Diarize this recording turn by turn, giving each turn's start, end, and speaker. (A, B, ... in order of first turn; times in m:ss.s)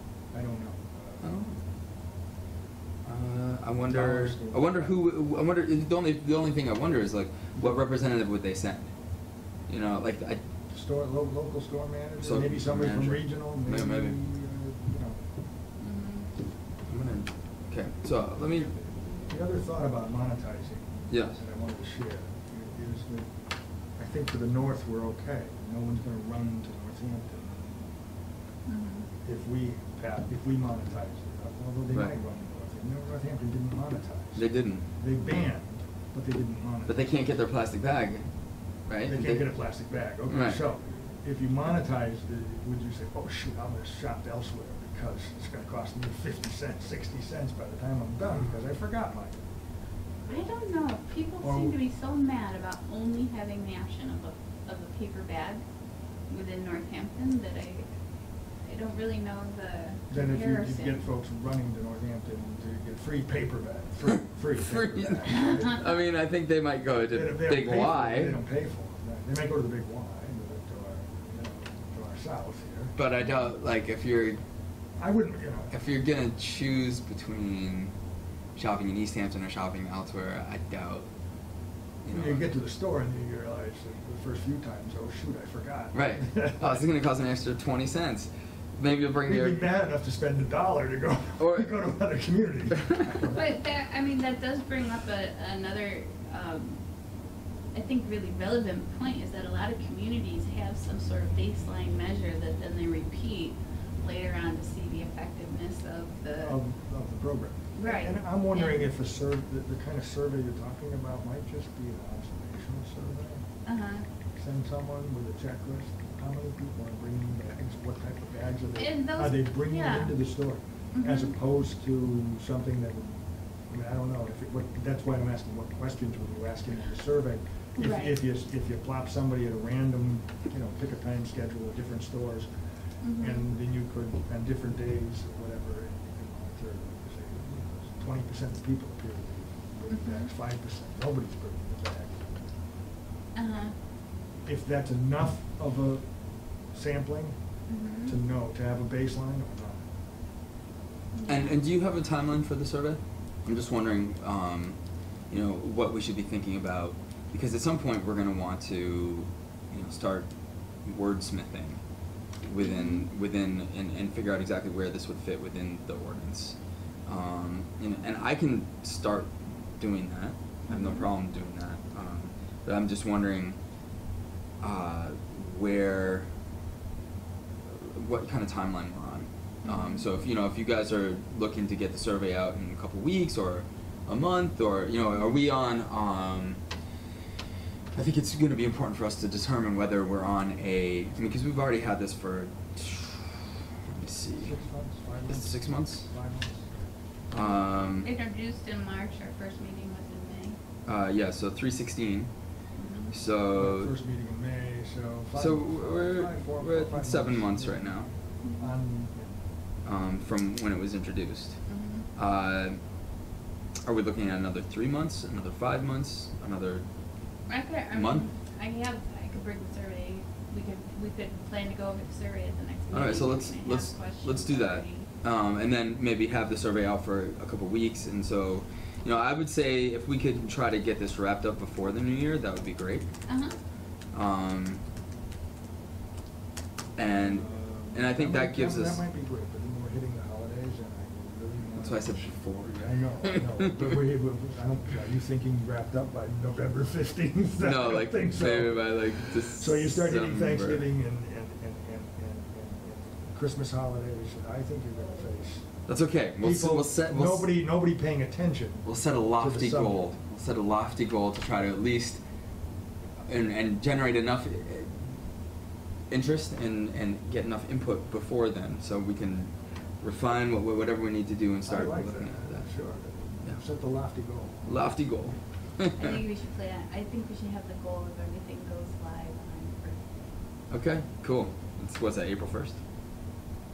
0:00.3-0:01.4 A
0:01.2-0:01.6 B
0:03.0-0:08.9 B
0:03.8-0:05.0 A
0:09.7-0:10.4 B
0:10.7-0:15.2 A
0:12.2-0:14.2 B
0:15.8-0:16.3 C
0:16.9-0:18.7 B
0:19.3-0:23.3 A
0:21.1-0:21.4 B
0:24.0-0:27.7 A
0:28.7-0:29.1 C
0:29.2-0:34.4 A
0:34.4-0:34.9 B
0:35.0-0:37.2 A
0:36.9-0:38.3 B
0:38.9-0:39.6 B
0:39.0-0:49.4 A
0:40.3-0:40.6 B
0:50.3-0:55.6 C
0:51.4-0:51.8 A
0:56.3-0:57.9 C
0:58.6-1:01.0 C
1:00.1-1:05.8 A
1:04.1-1:08.4 B
1:05.4-1:05.8 C
1:07.1-1:13.0 A
1:13.0-1:14.4 B
1:15.0-1:15.7 A
1:15.7-1:17.9 B
1:18.6-1:21.1 B
1:22.0-1:22.5 B
1:22.1-1:26.9 A
1:25.9-1:29.7 B
1:29.2-1:33.5 A
1:31.4-1:31.7 B
1:33.3-1:36.8 C
1:37.7-1:46.6 C
1:46.4-1:53.4 A
1:47.8-1:48.9 C
1:53.6-1:54.0 C
1:54.4-2:12.5 A
1:58.8-2:00.2 C
2:00.9-2:01.4 C
2:07.8-2:08.2 C
2:13.0-2:13.5 C
2:13.1-2:22.4 A
2:19.9-2:20.3 C
2:23.4-2:23.8 C
2:24.4-2:26.1 A
2:26.6-2:27.5 A
2:27.7-2:28.2 C
2:28.0-2:29.8 A
2:31.1-2:31.6 C
2:31.3-2:34.8 B
2:35.3-2:40.3 B
2:40.8-2:41.8 B
2:42.4-2:53.6 B
2:42.6-2:43.1 C
2:50.7-2:51.1 C
2:54.6-2:56.3 B
2:57.7-3:06.6 B
2:59.6-3:00.1 C
3:08.0-3:14.6 B
3:14.4-3:16.7 A
3:15.3-3:16.1 B
3:17.3-3:18.1 B
3:18.0-3:20.6 C
3:20.8-3:22.3 B
3:22.8-3:23.1 C
3:23.1-3:23.9 B
3:23.5-3:29.4 A
3:25.4-3:28.1 B
3:28.4-3:28.7 C
3:29.8-3:32.8 B
3:31.7-3:32.1 C
3:33.9-3:36.8 B
3:37.5-3:45.1 C
3:37.9-3:38.3 B
3:42.9-3:53.1 B
3:53.3-3:53.6 C
3:54.1-3:54.8 B
3:57.0-3:59.0 B
3:57.0-4:15.8 A
4:01.8-4:03.7 B
4:07.6-4:10.9 B
4:15.9-4:17.6 B
4:16.4-4:20.1 A
4:18.8-4:22.2 B
4:23.3-4:25.0 B
4:26.1-4:32.8 B
4:31.6-4:35.0 A
4:34.7-4:36.2 B
4:36.0-4:40.3 C
4:40.7-4:42.8 B